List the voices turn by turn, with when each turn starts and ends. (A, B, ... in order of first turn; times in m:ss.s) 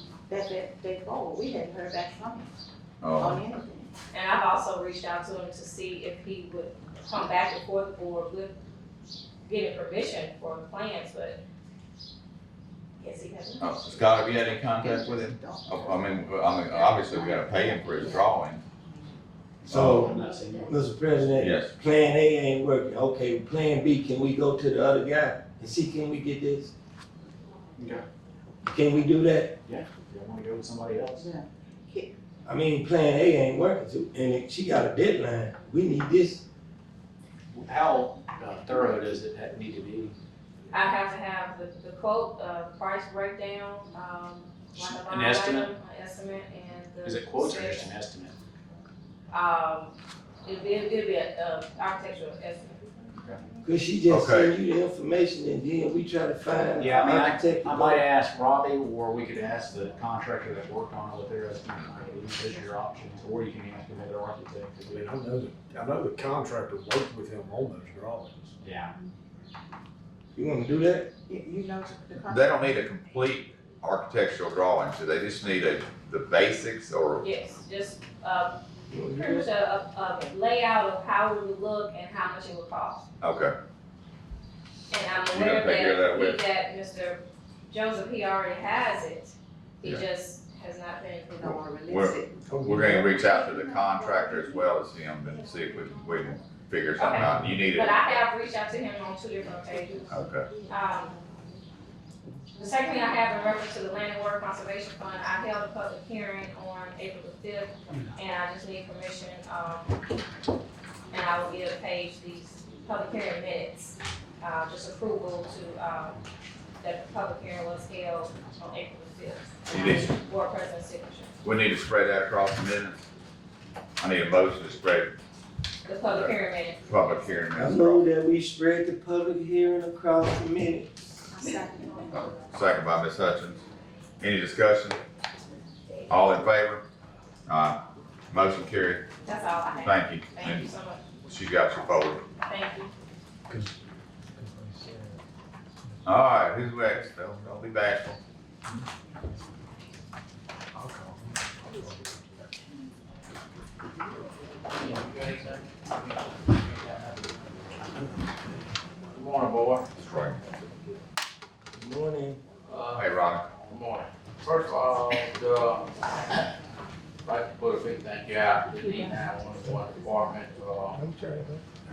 0:00.3-0:02.6 A
0:03.0-0:03.4 B
0:03.2-0:03.9 A
0:04.1-0:08.5 C
0:09.4-0:11.4 C
0:13.0-0:13.6 C
0:13.6-0:18.6 B
0:14.8-0:18.3 A
0:19.6-0:20.7 D
0:19.7-0:20.0 B
0:19.7-0:20.1 E
0:20.6-0:26.7 E
0:21.4-0:21.7 B
0:27.8-0:28.0 D
0:28.6-0:29.5 E
0:29.6-0:31.3 D
0:31.2-0:32.1 A
0:32.5-0:36.4 E
0:37.5-0:40.1 D
0:40.7-0:47.9 C
0:44.7-0:45.7 D
0:47.0-0:48.4 D
0:49.3-0:53.1 C
0:53.6-0:58.0 E
0:54.1-0:54.5 B
0:56.8-1:05.0 D
1:04.9-1:08.7 F
1:08.6-1:08.9 D
1:10.4-1:11.1 E
1:11.3-1:12.6 A
1:12.2-1:17.3 B
1:17.2-1:23.0 C
1:18.9-1:19.5 E
1:23.2-1:23.5 B
1:24.9-1:31.3 C
1:25.3-1:26.4 B
1:31.3-1:33.6 A
1:31.5-1:38.1 B
1:32.5-1:33.1 F
1:37.0-1:40.1 C
1:37.2-1:37.6 F
1:40.1-1:40.5 B
1:40.7-1:41.2 C
1:42.6-1:49.9 C
1:51.1-1:56.2 C
1:56.8-2:01.4 C
1:59.7-2:00.2 B
2:01.4-2:03.0 B
2:04.0-2:05.1 B
2:05.8-2:06.8 C
2:06.0-2:08.0 B
2:07.6-2:11.1 E
2:11.3-2:12.3 A
2:12.1-2:13.6 B
2:14.2-2:15.0 B
2:16.1-2:16.8 B
2:17.5-2:17.8 B
2:18.3-2:19.1 B
2:19.2-2:21.1 C
2:19.8-2:20.7 B
2:21.3-2:22.3 B
2:22.4-2:22.9 C
2:23.5-2:23.7 F
2:24.4-2:25.2 F
2:26.0-2:28.2 B
2:30.7-2:32.4 F
2:34.7-2:37.4 G
2:39.1-2:39.9 G
2:40.0-2:40.4 B
2:41.7-2:42.4 E
2:42.7-2:46.5 G
2:42.9-2:43.4 B
2:47.2-2:51.0 G
2:51.0-2:51.6 E